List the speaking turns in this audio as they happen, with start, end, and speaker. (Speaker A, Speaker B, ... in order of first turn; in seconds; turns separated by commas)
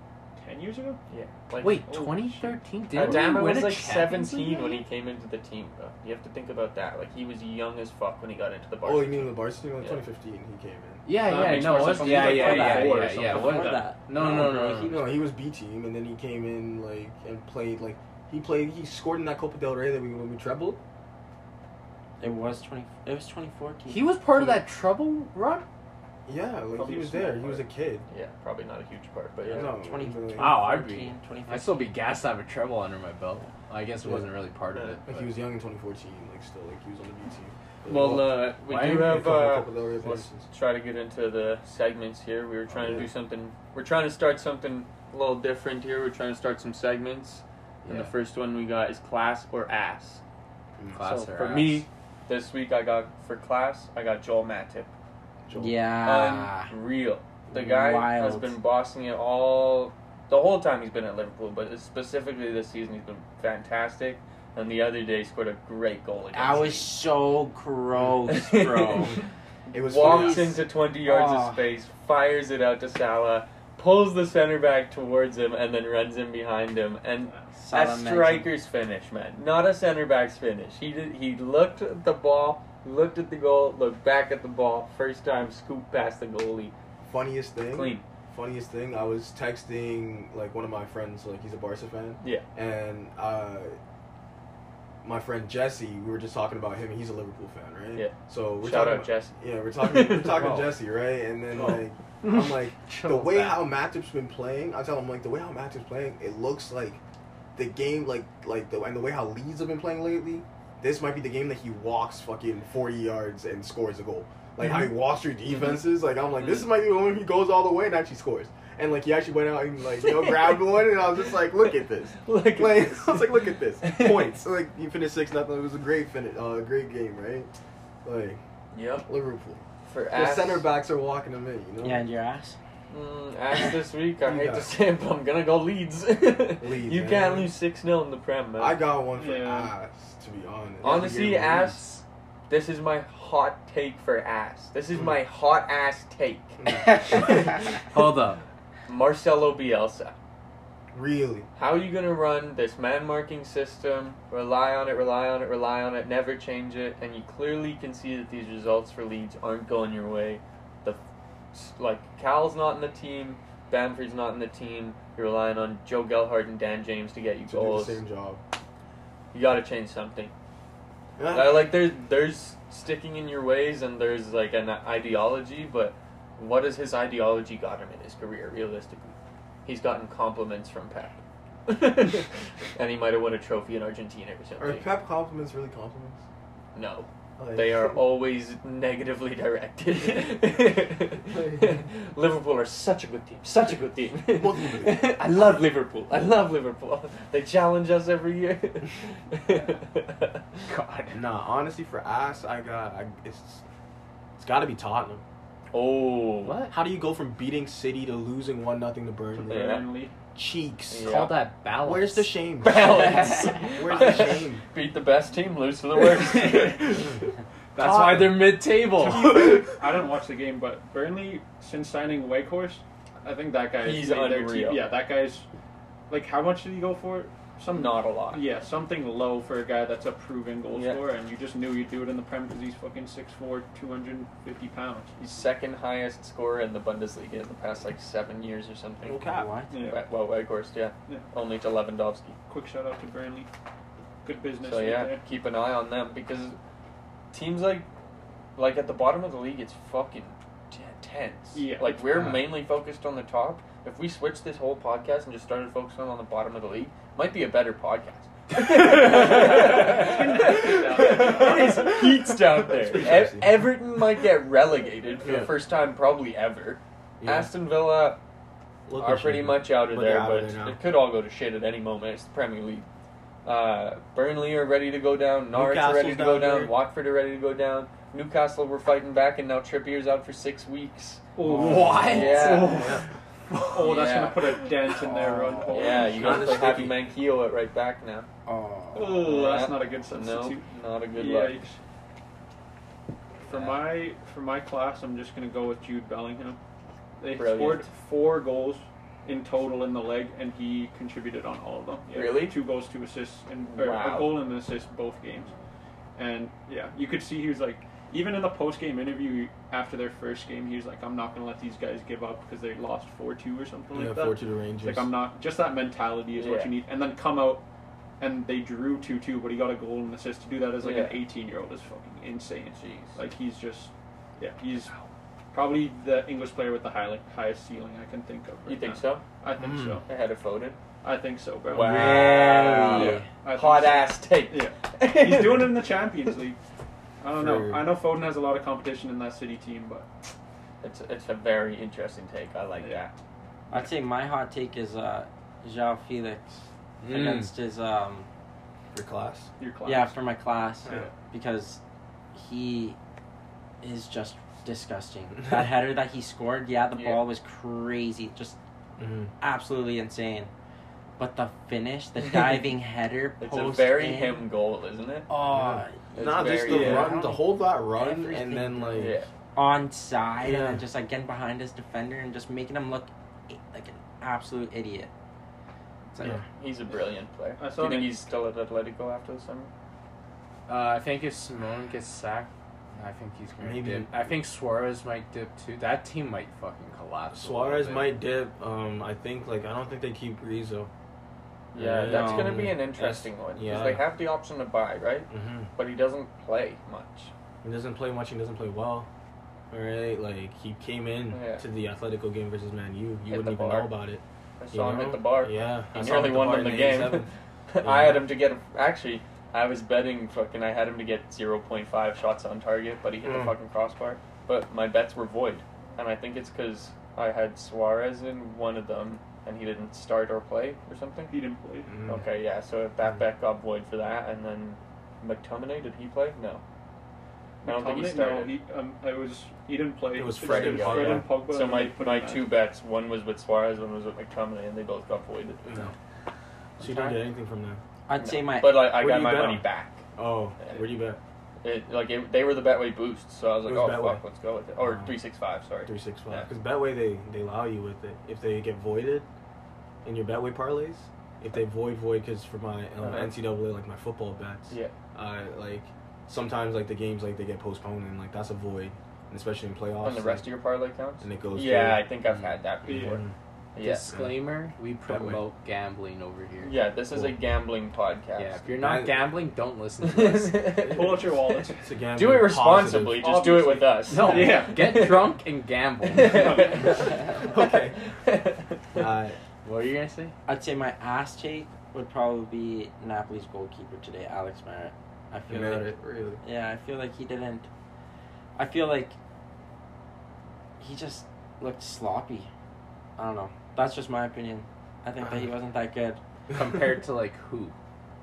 Speaker A: 0.3-1.0, Speaker B: 1.1-2.0, Speaker C: 1.6-4.8, Speaker A: 1.9-2.5, Speaker B: 2.9-10.0, Speaker D: 8.8-11.0, Speaker C: 11.1-15.0, Speaker A: 11.2-13.9, Speaker B: 11.3-13.0, Speaker E: 12.2-15.1, Speaker D: 14.2-20.8, Speaker E: 22.2-24.6, Speaker C: 23.9-25.6, Speaker D: 26.2-28.0, Speaker A: 26.7-27.6, Speaker B: 28.1-29.7, Speaker D: 29.5-30.5, Speaker E: 29.5-31.9, Speaker C: 30.4-35.3, Speaker D: 34.0-34.3, Speaker B: 34.7-35.0, Speaker D: 35.1-40.5, Speaker B: 37.9-50.2, Speaker C: 38.7-39.2, Speaker D: 42.7-43.1, Speaker C: 42.8-43.1, Speaker C: 47.8-48.1, Speaker C: 50.9-51.9, Speaker B: 51.0-54.9, Speaker D: 55.5-55.8, Speaker E: 55.5-56.7, Speaker B: 56.0-66.9, Speaker E: 57.5-58.6, Speaker E: 66.3-69.2, Speaker B: 68.3-86.7, Speaker D: 69.7-70.6, Speaker E: 70.0-71.6, Speaker E: 77.5-78.5, Speaker D: 87.0-93.8, Speaker B: 87.7-88.0, Speaker D: 95.0-107.0, Speaker B: 97.9-100.6, Speaker C: 100.3-100.7, Speaker C: 101.5-103.7, Speaker D: 107.5-127.5, Speaker B: 116.4-116.6, Speaker B: 120.0-120.8, Speaker B: 122.2-124.3, Speaker D: 128.0-128.4, Speaker B: 128.7-129.1, Speaker D: 129.0-132.0, Speaker B: 129.8-130.7, Speaker E: 131.8-132.6, Speaker B: 132.9-138.8, Speaker D: 134.2-134.7, Speaker D: 136.6-137.5, Speaker D: 138.6-141.7, Speaker A: 139.1-139.7, Speaker B: 140.8-141.9, Speaker C: 141.1-142.0, Speaker B: 142.5-147.6, Speaker D: 146.6-147.2, Speaker C: 147.9-148.4, Speaker B: 148.9-150.1, Speaker D: 150.9-151.5, Speaker B: 151.6-161.0, Speaker B: 161.5-168.0, Speaker D: 167.5-168.4, Speaker B: 169.3-170.3, Speaker D: 171.2-171.7, Speaker B: 171.3-184.9, Speaker D: 184.6-186.2, Speaker B: 186.7-200.6, Speaker D: 187.4-188.0, Speaker D: 194.3-195.1, Speaker C: 200.7-201.2, Speaker D: 201.1-203.6, Speaker D: 204.4-205.2, Speaker B: 205.7-206.5, Speaker C: 206.4-206.8, Speaker D: 206.7-209.8, Speaker A: 209.3-210.1, Speaker B: 209.5-209.8, Speaker D: 210.3-211.1, Speaker B: 210.9-211.4, Speaker C: 211.0-213.0, Speaker D: 211.8-212.9, Speaker B: 212.6-217.1, Speaker D: 213.7-214.6, Speaker C: 216.4-217.1, Speaker C: 217.7-219.5, Speaker D: 217.8-218.5, Speaker A: 218.8-225.4, Speaker B: 223.8-224.8, Speaker A: 226.1-235.1, Speaker B: 227.7-228.4, Speaker B: 230.7-231.0, Speaker B: 235.2-239.2, Speaker D: 239.0-239.5, Speaker E: 239.2-239.7, Speaker A: 239.7-240.0, Speaker B: 239.8-242.4, Speaker A: 242.5-243.5, Speaker A: 244.2-245.2, Speaker B: 244.6-246.6, Speaker B: 247.3-247.9, Speaker B: 248.6-268.2, Speaker A: 251.5-252.0, Speaker D: 252.1-252.5, Speaker A: 259.0-261.8, Speaker D: 261.1-263.7, Speaker D: 265.2-265.6, Speaker D: 267.2-267.5, Speaker D: 268.9-270.8, Speaker B: 269.0-272.9, Speaker B: 273.4-281.2, Speaker D: 275.5-276.7, Speaker A: 281.4-282.6, Speaker C: 281.4-283.9, Speaker D: 281.6-283.0, Speaker B: 282.0-282.9, Speaker A: 283.7-286.7, Speaker B: 283.8-284.6, Speaker E: 285.0-286.1, Speaker B: 285.7-288.3, Speaker D: 286.1-287.0, Speaker E: 288.4-289.3, Speaker A: 288.9-290.6, Speaker B: 289.2-291.6, Speaker A: 291.1-291.8, Speaker A: 293.4-296.6, Speaker C: 293.5-293.8, Speaker A: 297.2-305.5, Speaker B: 297.3-297.9, Speaker B: 302.1-302.6, Speaker B: 303.7-304.4, Speaker A: 306.1-317.6, Speaker D: 313.9-315.1, Speaker B: 316.3-316.7, Speaker A: 318.2-324.9, Speaker B: 320.8-321.2, Speaker B: 322.8-323.2, Speaker A: 325.5-330.0, Speaker B: 328.6-329.2, Speaker D: 329.6-330.0, Speaker B: 330.1-330.8, Speaker A: 331.0-332.0, Speaker B: 331.7-335.9, Speaker E: 331.8-333.3, Speaker A: 332.9-336.6, Speaker A: 337.2-340.1, Speaker D: 337.4-337.9, Speaker B: 340.8-343.1, Speaker E: 343.7-348.3, Speaker C: 347.0-347.5, Speaker D: 348.9-349.5, Speaker A: 349.6-350.1, Speaker E: 349.8-351.8, Speaker E: 352.3-353.0, Speaker E: 353.8-358.6, Speaker B: 356.9-357.2, Speaker D: 359.0-359.3, Speaker E: 359.4-360.5, Speaker E: 361.2-364.4, Speaker B: 362.2-362.6, Speaker B: 363.4-365.3, Speaker E: 365.3-375.1, Speaker D: 365.4-369.2, Speaker B: 366.1-367.1, Speaker B: 368.9-369.3, Speaker D: 370.4-370.8, Speaker E: 376.1-376.4, Speaker B: 376.2-379.7, Speaker A: 377.6-378.2, Speaker C: 380.7-388.1, Speaker D: 383.6-384.1, Speaker D: 387.3-390.9, Speaker B: 391.7-397.3, Speaker D: 391.7-394.1, Speaker E: 392.1-392.6, Speaker D: 395.3-395.7, Speaker D: 397.6-399.1, Speaker D: 399.7-407.3, Speaker B: 401.3-401.6, Speaker B: 403.3-403.9, Speaker B: 404.6-421.3, Speaker D: 407.8-408.3, Speaker D: 413.2-413.5, Speaker A: 421.3-421.9, Speaker D: 421.9-422.2, Speaker B: 422.1-426.6, Speaker A: 427.6-432.5, Speaker B: 427.6-428.5, Speaker D: 430.1-431.3, Speaker B: 430.4-435.6, Speaker D: 435.6-435.9, Speaker D: 436.8-437.8, Speaker B: 436.8-437.2, Speaker E: 438.1-438.9, Speaker B: 438.2-440.0, Speaker D: 438.8-441.2, Speaker B: 441.6-446.5, Speaker D: 443.6-444.2, Speaker D: 444.8-445.1, Speaker D: 445.9-449.2, Speaker D: 450.0-460.4, Speaker B: 453.0-453.4, Speaker B: 460.0-463.2, Speaker D: 461.2-462.1, Speaker A: 462.8-463.2, Speaker D: 462.9-463.3, Speaker B: 463.7-464.1, Speaker C: 463.8-466.8, Speaker D: 464.1-464.4, Speaker D: 465.0-465.4, Speaker B: 466.6-468.6, Speaker C: 468.4-470.9, Speaker D: 468.8-469.3, Speaker B: 470.0-471.3, Speaker D: 470.9-471.2, Speaker A: 470.9-471.8, Speaker D: 471.8-473.3, Speaker B: 472.1-475.4, Speaker A: 473.2-474.9, Speaker C: 474.1-476.7, Speaker B: 476.1-478.8, Speaker A: 476.2-477.0, Speaker D: 477.0-478.0, Speaker D: 478.9-479.4, Speaker C: 479.6-480.3, Speaker E: 480.5-487.7, Speaker D: 485.5-486.4, Speaker E: 488.6-489.1, Speaker E: 490.8-492.5, Speaker E: 493.2-496.2, Speaker D: 495.2-495.5, Speaker C: 496.5-497.7